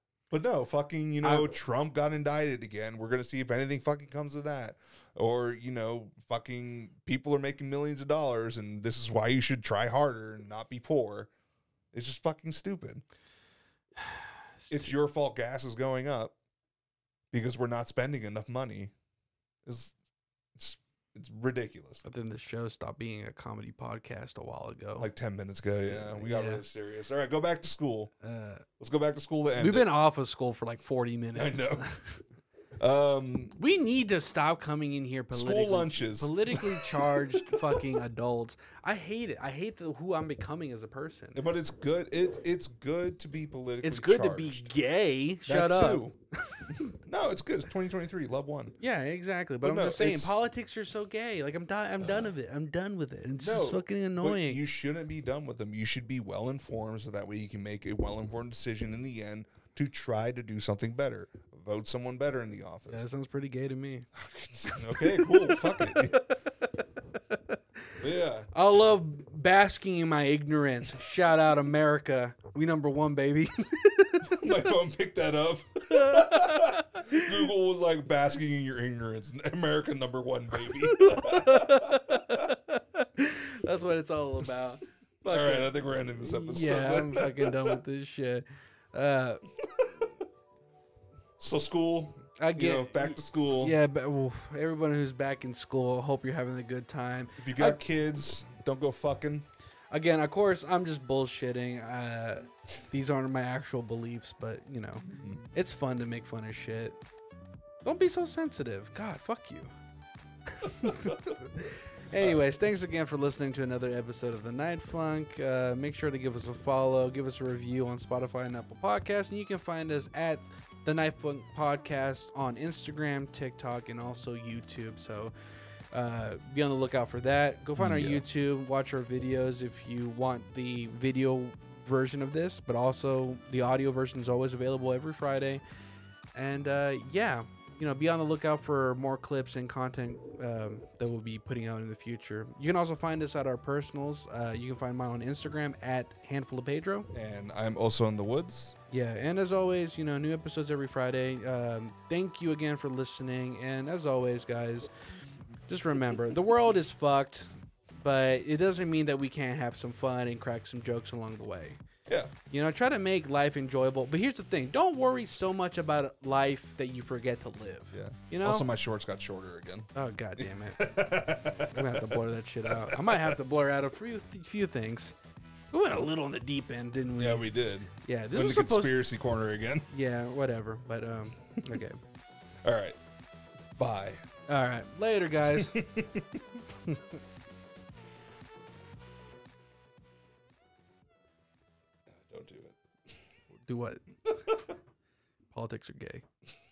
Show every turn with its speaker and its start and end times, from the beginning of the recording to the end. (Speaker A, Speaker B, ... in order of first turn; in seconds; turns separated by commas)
Speaker A: 0.3-11.3, Speaker B: 1.2-1.6, Speaker A: 11.9-13.0, Speaker B: 14.0-14.9, Speaker A: 14.7-16.4, Speaker A: 17.3-18.9, Speaker A: 19.6-19.9, Speaker A: 20.6-22.0, Speaker B: 22.0-25.1, Speaker A: 25.0-28.1, Speaker B: 25.9-26.6, Speaker B: 28.2-28.7, Speaker A: 28.8-29.9, Speaker B: 29.6-32.2, Speaker A: 31.4-31.9, Speaker A: 32.8-33.5, Speaker B: 33.6-41.4, Speaker A: 35.3-38.0, Speaker A: 41.3-44.7, Speaker B: 43.8-46.9, Speaker A: 45.5-46.2, Speaker A: 46.9-48.8, Speaker B: 48.8-54.6, Speaker A: 49.6-50.4, Speaker A: 52.0-52.3, Speaker A: 53.4-63.1, Speaker B: 62.9-64.1, Speaker A: 64.1-66.2, Speaker B: 64.6-67.6, Speaker A: 68.0-68.5, Speaker B: 68.5-74.7, Speaker A: 74.2-82.5, Speaker B: 75.9-77.5, Speaker B: 80.6-85.7, Speaker A: 85.3-87.8, Speaker B: 86.2-89.4, Speaker A: 89.6-90.0, Speaker A: 91.4-93.8, Speaker B: 92.4-97.8, Speaker A: 97.4-99.5, Speaker B: 99.9-107.0, Speaker A: 105.1-105.4, Speaker B: 107.8-109.7, Speaker B: 110.6-125.3, Speaker A: 110.8-111.3, Speaker A: 112.1-112.4, Speaker B: 125.9-135.6, Speaker A: 127.8-128.2, Speaker B: 136.3-147.1, Speaker A: 147.1-148.8, Speaker B: 148.9-154.9, Speaker B: 155.7-161.8, Speaker A: 162.1-162.3, Speaker B: 162.5-168.7, Speaker A: 167.9-173.4, Speaker B: 169.9-171.1, Speaker B: 171.7-175.2, Speaker B: 175.7-177.5, Speaker A: 177.2-179.9, Speaker B: 178.0-179.0, Speaker B: 179.9-182.0, Speaker A: 182.6-183.0, Speaker A: 183.8-184.2, Speaker B: 184.5-185.8, Speaker A: 185.5-186.4, Speaker B: 186.8-187.2, Speaker A: 192.1-193.2, Speaker B: 193.6-194.2, Speaker A: 194.3-194.7, Speaker B: 195.5-196.2